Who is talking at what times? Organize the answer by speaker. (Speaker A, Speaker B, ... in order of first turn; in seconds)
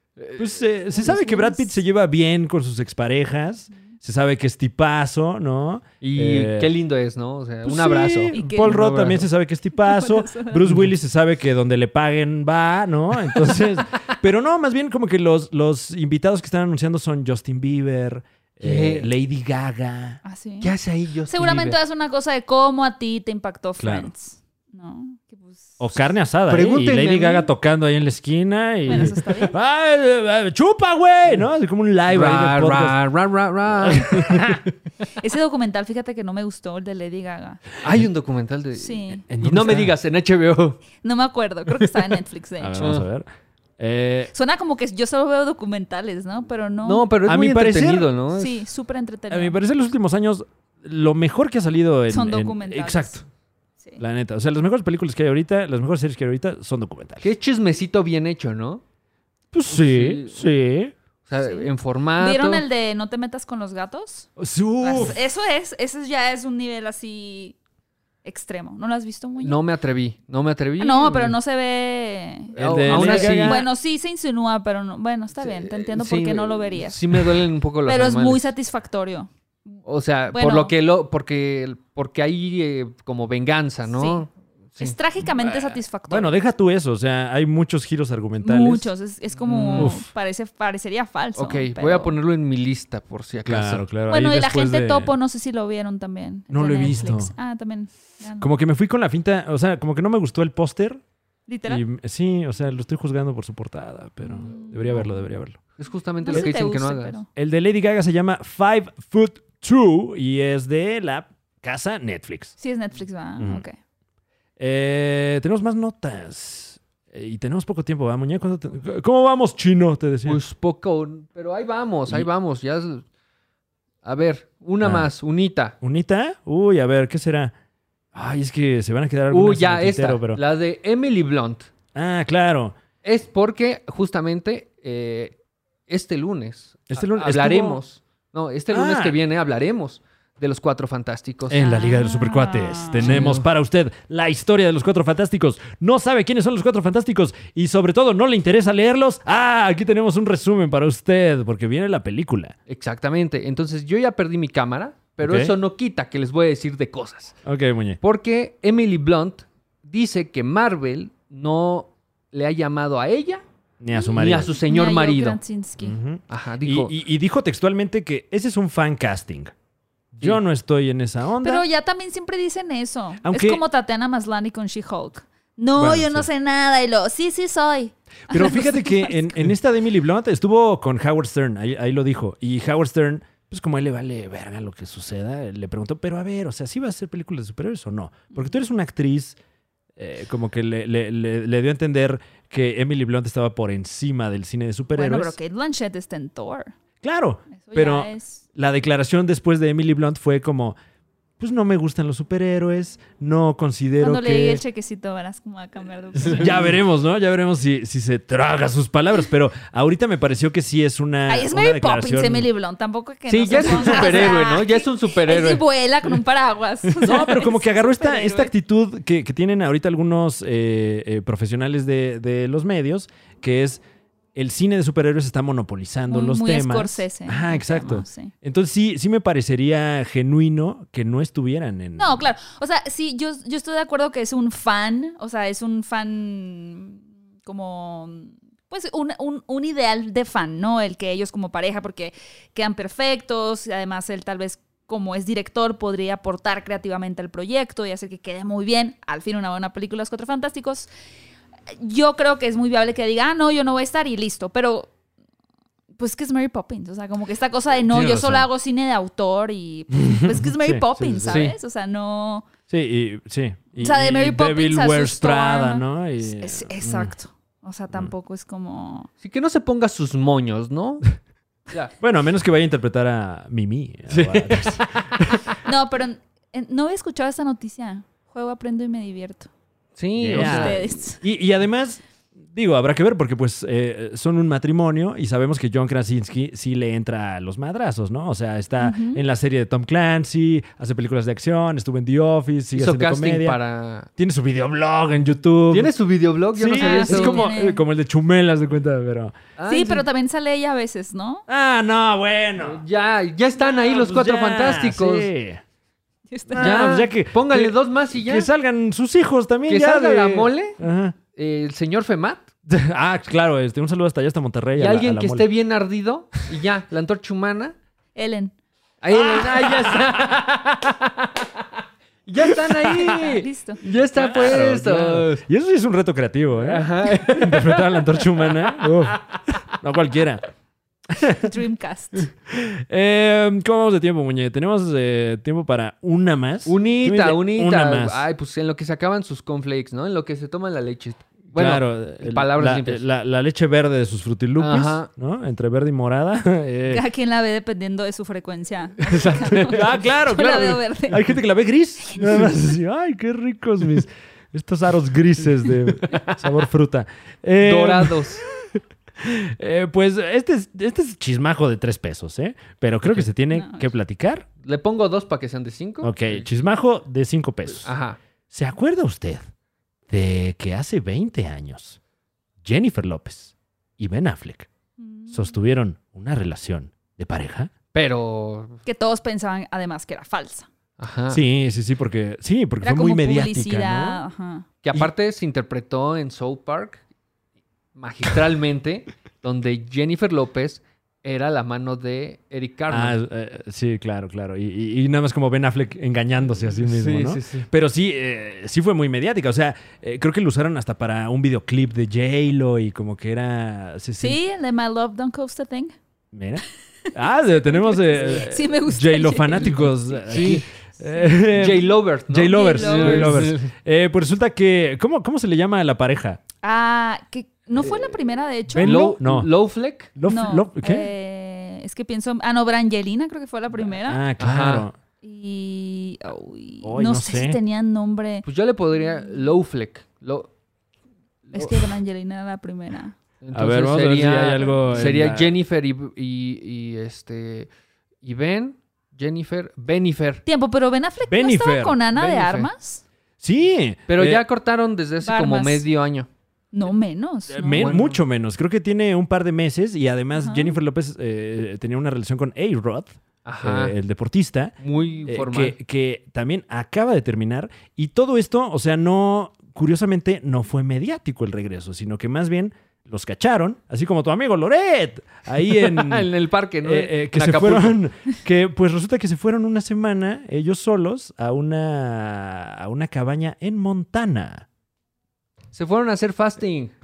Speaker A: 0.2-0.6, 6.0-9.3, 18.6-19.1, 20.6-21.8, 26.5-27.5, 32.1-34.6, 37.8-40.8, 42.8-43.1, 46.8-48.6, 57.2-58.8, 59.7-60.4, 61.3-62.6, 69.4-71.3, 72.5-73.7, 75.4-78.5, 79.8-84.9, 89.4-90.0, 91.4-93.8, 105.8-107.2, 120.2-123.0, 124.0-125.7, 129.3-131.7, 133.0-135.3, 135.9-141.6, 143.0-143.4, 152.7-157.4, 158.0-163.4, 164.1-165.4, 166.3-166.9, 206.2-206.6, 213.3-216.2, 216.9-217.3, 261.3-261.5, 269.2-271.1, 274.1-275.1, 280.0-280.8, 292.8-294.1, 295.7-297.5, 299.6-300.1, 302.6-305.3, 306.6-308.5, 309.7-310.8, 311.3-312.5, 314.8-317.7, 319.0-321.6, 322.2-325.4, 326.5-329.1, 336.6-343.0, 344.6-345.1, 349.0-349.9, 355.9-356.4, 357.6-358.4, 364.6-366.4, 367.8-368.2, 377.9-378.8, 381.0-381.4, 384.8-387.0, 387.9-393.1, 396.8-397.7, 410.3-410.6, 411.5-413.7, 418.8-420.1, 424.4-424.9, 428.4-430.5, 433.4-437.7, 438.2-440.4, 442.1-442.7, 444.1-446.3, 447.7-448.2, 453.4-453.9, 454.8-455.8, 465.7-467.9, 475.7-476.9
Speaker B: 0.4-6.7, 7.6-20.2, 23.8-24.1, 25.8-33.0, 33.7-34.6, 39.3-39.9, 42.6-43.2, 43.8-44.3, 47.2-48.1, 49.3-53.2, 54.0-57.3, 59.5-60.9, 64.4-65.2, 72.5-73.7, 85.4-88.9, 89.8-90.0, 93.4-95.1, 96.5-97.3, 98.4-101.0, 101.7-105.6, 106.3-106.6, 107.3-112.5, 113.4-113.6, 114.6-120.4, 124.8-125.1, 125.8-127.5, 128.1-130.4, 131.9-132.8, 136.9-137.8, 138.7-139.2, 141.5-152.5, 155.2-155.5, 157.4-158.0, 163.8-164.5, 165.8-169.5, 170.1-171.6, 173.2-173.6, 175.7-176.3, 178.3-189.4, 190.0-195.3, 197.0-200.8, 201.4-204.6, 206.2-212.5, 213.5-214.3, 217.0-223.8, 224.3-232.3, 257.9-258.5, 259.9-261.5, 262.7-267.1, 272.0-275.4, 280.2-293.6, 294.2-295.9, 296.5-299.4, 301.5-302.8, 303.6-305.6, 306.5-311.2, 312.7-315.5, 319.1-320.4, 322.5-323.3, 324.1-330.5, 331.1-331.5, 332.5-338.2, 341.5-347.0, 349.4-364.4, 366.0-367.9, 368.5-369.4, 370.1-372.0, 372.6-374.7, 375.3-377.7, 381.3-384.2, 392.9-404.4, 406.3-416.4, 418.7-419.5, 420.1-421.1, 423.9-424.9, 426.8-427.6, 433.5-435.5, 441.3-442.0, 443.4-444.4, 447.5-454.7, 455.2-466.3, 466.8-474.6
Speaker C: 0.9-1.7, 8.3-8.8, 9.8-10.7, 20.2-20.7, 21.3-26.0, 28.9-29.6, 35.1-37.6, 38.8-39.2, 41.0-43.0, 44.3-47.0, 48.3-49.6, 52.1-53.2, 61.4-64.3, 64.8-67.5, 68.2-69.6, 70.8-77.3, 77.9-79.8, 80.3-80.7, 83.9-84.2, 84.8-86.3, 88.4-92.1, 94.1-98.5, 101.5-101.8, 104.2-105.1, 106.2-107.3, 112.6-113.8, 141.6-143.1, 163.9-166.0, 171.4-179.4, 194.9-196.7, 197.5-198.4, 204.0-206.7, 211.3-218.5, 226.1-228.3, 232.0-250.9, 251.7-254.9, 256.0-262.4, 263.8-269.1, 275.6-279.5, 280.3-281.2, 288.8-289.2, 296.8-297.8, 299.7-301.4, 306.3-307.0, 318.1-318.5, 322.8-323.8, 331.4-332.3, 346.9-351.3, 363.5-363.8, 375.0-375.5, 378.8-380.7, 382.8-384.6, 404.2-405.9, 407.3-410.2, 412.4-413.5, 416.6-419.1, 420.2-424.2, 425.2-428.4, 431.5-433.1, 440.4-443.0, 445.2-445.8, 446.7-447.9, 450.4-450.7